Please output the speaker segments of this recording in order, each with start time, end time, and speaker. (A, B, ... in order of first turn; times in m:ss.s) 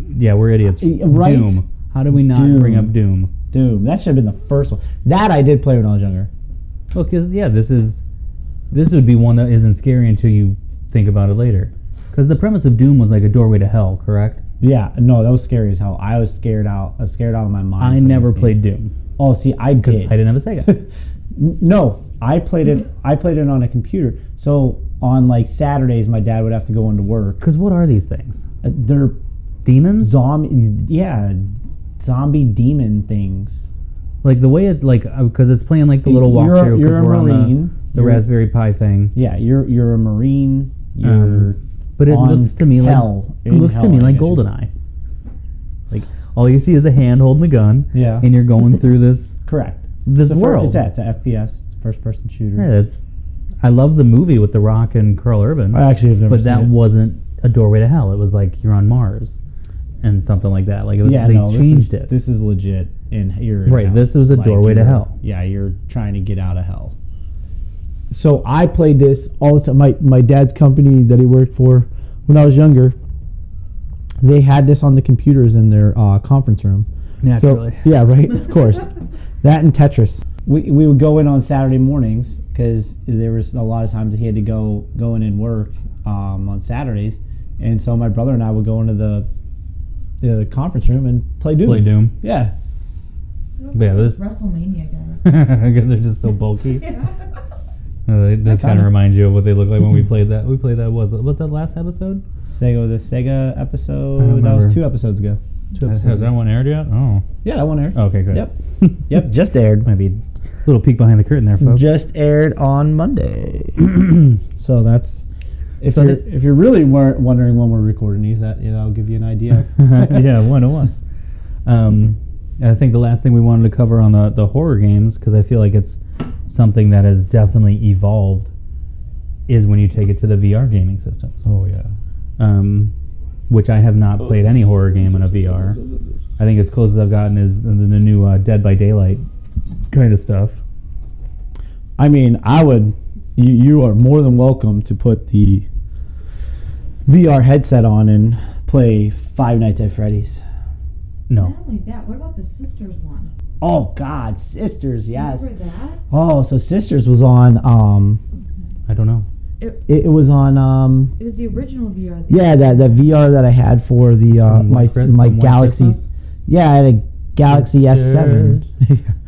0:00.1-0:03.3 A
0:00.8-0:01.6 B
0:02.1-0:02.9 B
0:03.5-0:06.3 B
0:06.9-0:08.0 A
0:08.7-0:14.4 A
0:14.6-0:18.6 B
0:17.8-0:18.9 A
0:19.2-0:27.4 B
0:19.8-0:20.7 A
0:27.4-0:28.4 A
0:28.6-0:29.2 B
0:29.6-0:30.2 A
0:30.0-0:33.6 B
0:34.2-0:39.1 A
0:36.0-0:38.2 B
0:39.1-0:44.5 B
0:41.0-0:44.7 A
0:45.9-0:49.4 A
0:47.9-0:48.2 B
0:49.4-0:52.7 B
0:50.0-0:50.8 A
0:52.6-0:53.0 A
0:53.6-0:59.4 A
0:55.7-0:56.7 B
1:00.0-1:02.1 A
1:01.0-1:06.9 B
1:03.6-1:05.2 A
1:08.1-1:13.0 B
1:14.2-1:29.3 B
1:17.2-1:17.9 A
1:30.2-1:32.5 B
1:31.6-1:32.1 A
1:33.6-1:35.3 C
1:33.7-1:34.2 A
1:35.2-1:36.9 A
1:36.8-1:37.2 C
1:38.0-1:42.2 A
1:38.4-1:38.9 B
1:42.5-1:46.3 B
1:44.2-1:44.8 A
1:45.8-1:47.3 A
1:47.4-1:48.5 B
1:47.9-1:49.1 A
1:49.1-1:49.9 B
1:49.8-1:51.9 A
1:51.6-1:55.2 B
1:55.8-2:00.2 B
1:55.9-1:56.2 A
1:59.6-2:01.0 A
2:01.6-2:08.5 A
2:09.5-2:11.4 A
2:11.4-2:11.9 B
2:12.4-2:12.9 A
2:13.5-2:15.8 A
2:15.1-2:16.0 B
2:16.4-2:19.2 A
2:19.9-2:20.6 A
2:22.0-2:25.7 B
2:27.0-2:30.4 B
2:31.3-2:31.5 A
2:31.4-2:33.3 C
2:33.6-2:35.5 B
2:35.1-2:36.0 C
2:36.1-2:38.2 B
2:38.9-2:39.3 A
2:39.9-2:41.1 B
2:41.2-2:43.0 C
2:42.3-2:49.2 B
2:44.4-2:46.1 A
2:47.4-2:48.6 A